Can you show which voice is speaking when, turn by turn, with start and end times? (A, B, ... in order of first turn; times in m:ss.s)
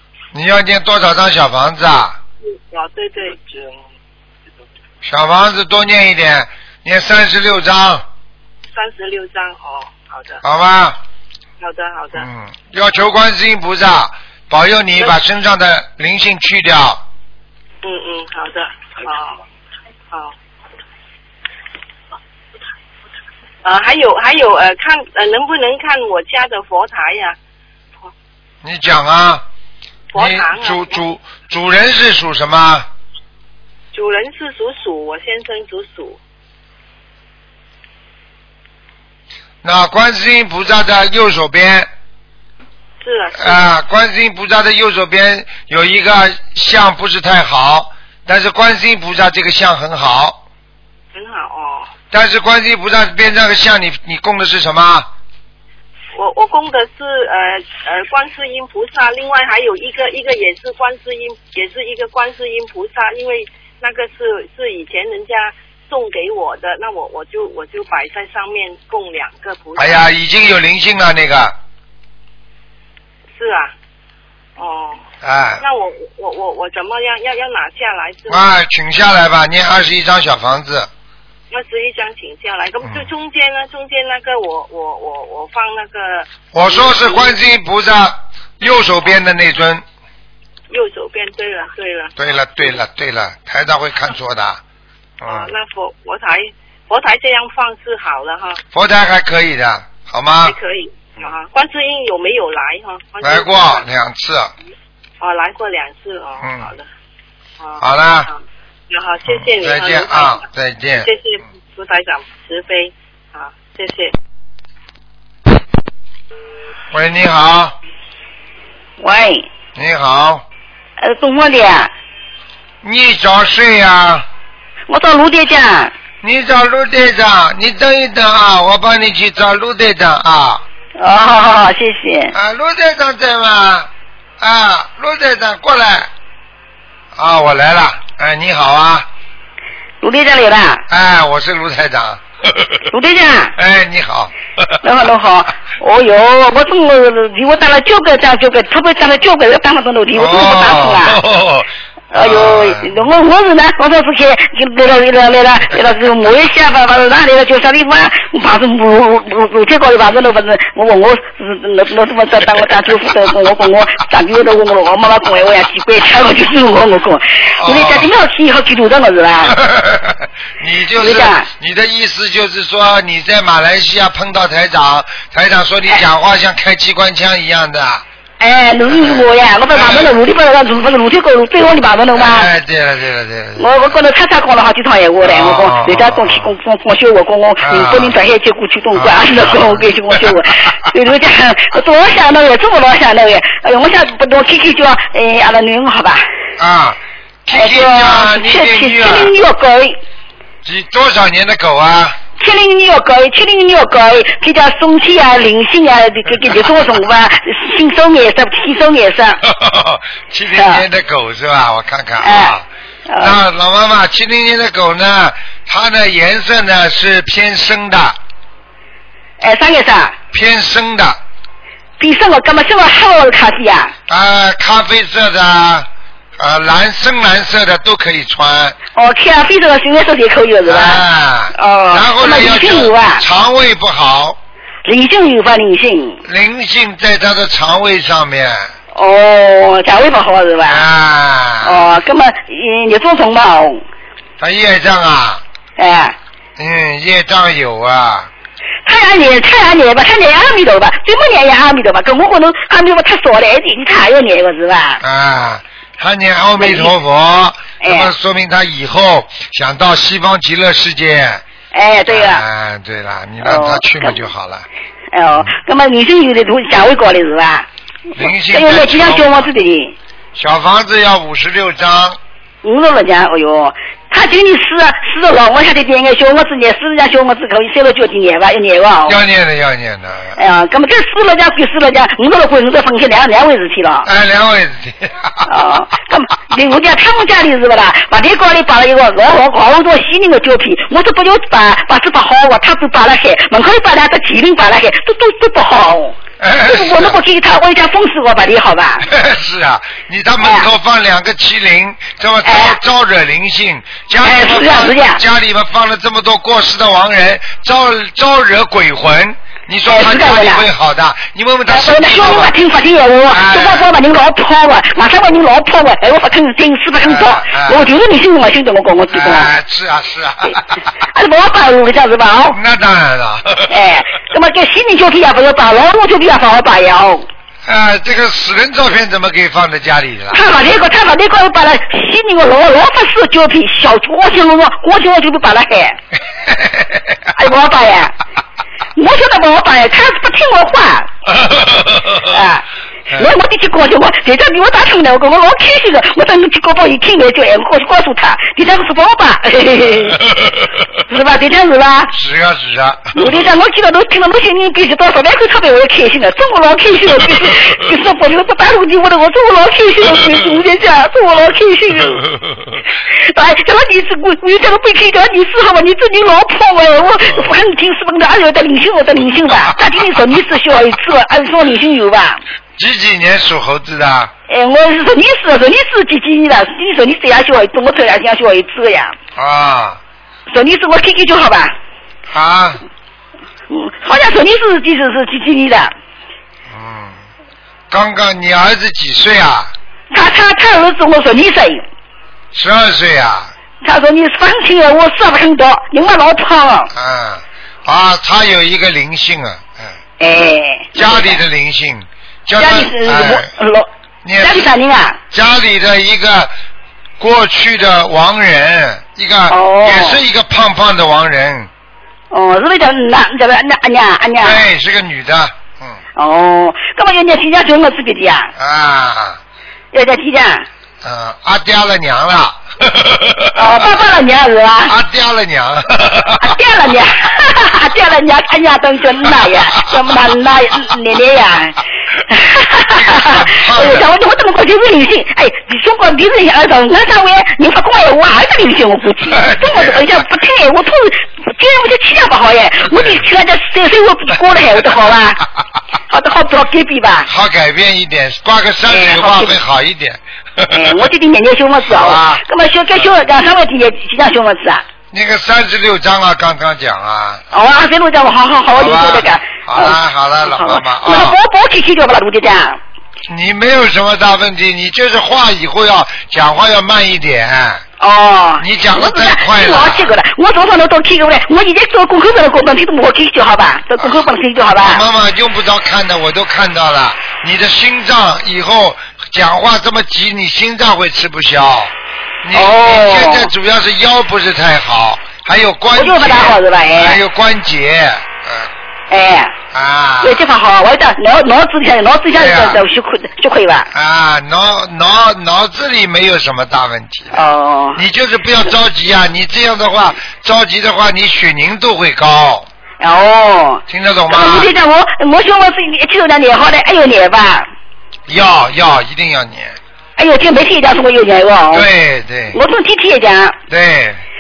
0:00.3-0:02.2 A
0:02.4-0:03.8 B
0:05.0-0:08.1 A
0:08.7-0:10.4 B
0:10.4-0:11.0 A
0:11.6-0:12.3 B
0:12.2-0:17.0 A
0:17.8-0:19.4 B
0:23.6-0:27.4 B
0:28.6-0:29.4 A
0:30.1-0:31.0 B
0:30.2-0:32.9 A
0:33.9-0:36.2 B
0:39.6-0:41.9 A
0:43.0-0:43.7 B
0:43.4-0:50.4 A
0:51.1-0:51.9 B
0:52.1-0:55.1 A
0:56.2-1:10.1 B
1:09.8-1:11.6 A
1:13.4-1:13.7 B
1:14.6-1:15.0 B
1:15.2-1:15.6 A
1:15.6-1:18.5 B
1:18.3-1:20.9 A
1:21.5-1:27.4 B
1:26.5-1:29.8 A
1:30.7-1:32.2 B
1:32.2-1:34.6 A
1:35.2-1:35.5 A
1:35.2-1:38.6 B
1:38.7-1:40.6 A
1:40.4-1:43.9 B
1:43.2-1:44.5 A
1:45.2-1:46.8 B
1:46.4-1:46.7 A
1:47.6-1:50.4 B
1:47.8-1:48.3 A
1:49.3-1:51.1 A
1:51.0-1:54.1 B
1:56.9-1:57.8 A
1:59.0-1:59.5 C
1:59.8-2:00.4 A
2:01.0-2:01.9 C
2:02.8-2:04.3 A
2:04.9-2:05.9 C
2:06.2-2:10.6 A
2:11.0-2:12.4 C
2:12.3-2:13.9 A
2:14.4-2:16.1 A
2:17.2-2:19.1 A
2:20.0-2:20.8 C
2:20.9-2:22.8 A
2:22.9-2:23.5 C
2:23.6-2:24.8 A
2:24.8-2:31.2 C
2:30.1-2:33.1 A
2:32.1-2:49.6 C
2:47.6-2:48.1 A
2:49.5-2:58.0 A
2:51.0-2:51.5 C
2:58.4-3:02.5 C
2:58.9-3:00.1 A
3:02.1-3:04.0 A
3:03.6-3:16.3 C
3:05.2-3:06.5 A
3:07.6-3:08.2 A
3:08.9-3:10.6 A
3:16.6-3:19.3 A
3:17.5-3:20.0 C
3:20.6-3:22.2 A
3:22.4-3:29.4 C
3:29.4-3:38.2 A
3:30.5-3:30.8 C
3:32.2-3:33.4 C
3:39.4-3:40.2 C
3:40.3-3:41.2 A
3:42.0-3:43.9 C
3:44.1-3:48.8 A
3:49.0-3:53.2 C
3:50.7-3:54.4 A
3:54.8-3:56.2 C
3:56.2-3:58.7 A
3:58.9-4:00.8 C
4:00.6-4:01.9 A
4:01.6-4:03.8 C
4:04.4-4:05.4 A
4:05.8-4:06.2 C
4:06.6-4:08.3 A
4:08.8-4:15.0 C
4:15.0-4:21.4 A
4:16.6-4:16.9 C
4:17.8-4:18.1 C
4:21.7-4:22.4 C
4:22.1-4:24.7 A
4:23.4-4:24.2 C
4:25.1-4:30.0 C
4:28.2-4:29.5 A
4:30.4-4:32.2 A
4:32.6-4:39.2 C
4:39.1-4:40.4 A
4:40.4-4:44.1 C
4:44.0-4:45.5 A
4:45.5-4:59.1 C
4:56.4-4:57.2 A
4:59.0-5:12.5 A
5:00.4-5:00.7 C
5:02.4-5:02.8 C
5:04.2-5:05.2 C
5:09.9-5:10.6 C
5:11.7-5:19.5 C
5:13.3-5:13.9 A
5:17.0-5:17.9 A
5:19.1-5:20.8 A
5:21.0-5:22.6 C
5:22.5-5:23.9 A
5:23.7-5:27.3 C
5:27.7-5:30.4 A
5:30.3-5:36.0 C
5:36.5-5:37.2 A
5:37.4-5:38.2 C
5:39.0-5:41.1 C
5:41.3-5:42.3 A
5:42.3-5:50.2 C
5:43.1-5:43.3 A
5:50.3-5:50.8 A
5:51.1-5:52.1 C
5:52.1-5:53.5 A
5:53.2-6:02.3 C
6:03.1-6:12.4 C
6:07.3-6:07.5 A
6:12.8-6:14.3 A
6:14.5-6:19.2 C
6:19.4-6:20.0 A
6:20.5-6:21.8 C
6:22.3-6:22.8 A
6:23.7-6:25.9 C
6:26.7-6:27.2 A
6:27.9-6:29.8 A
6:30.1-6:31.8 C
6:32.5-6:33.5 A
6:33.8-6:36.9 C
6:36.9-6:40.0 A
6:40.2-6:41.4 C
6:40.9-6:43.5 A
6:42.6-6:45.2 C
6:44.2-6:44.7 A
6:45.3-6:46.5 A
6:47.2-6:51.7 A
6:49.5-6:50.2 C
6:52.3-6:54.6 C
6:54.4-6:56.0 A
6:56.2-6:58.5 C
6:58.6-6:59.4 A
6:59.9-7:00.7 C
7:01.0-7:04.0 A
7:03.6-7:05.0 C
7:04.9-7:06.6 A
7:06.4-7:25.5 C
7:13.0-7:14.1 A
7:19.3-7:20.3 A
7:22.8-7:23.3 A
7:26.1-7:27.3 C
7:27.3-7:31.1 A
7:28.9-7:29.6 C
7:30.7-7:34.8 C
7:31.9-7:33.1 A
7:35.1-7:37.4 A
7:37.5-7:42.8 C
7:38.7-7:41.4 A
7:43.3-7:47.8 A
7:48.0-7:55.0 C
7:48.6-7:50.1 A
7:54.0-8:01.9 A
8:02.4-8:08.7 A
8:02.5-8:03.5 C
8:06.0-8:07.2 C
8:09.1-8:09.6 C
8:09.7-8:10.5 A
8:10.2-8:13.9 C
8:12.3-8:12.9 A
8:13.9-8:17.4 A
8:17.3-8:18.0 C
8:18.0-8:22.7 A
8:23.0-8:27.7 C
8:23.9-8:24.7 A
8:28.3-8:29.8 A
8:30.2-8:31.9 C
8:31.7-8:32.6 A
8:32.5-8:33.6 C
8:33.7-8:34.2 A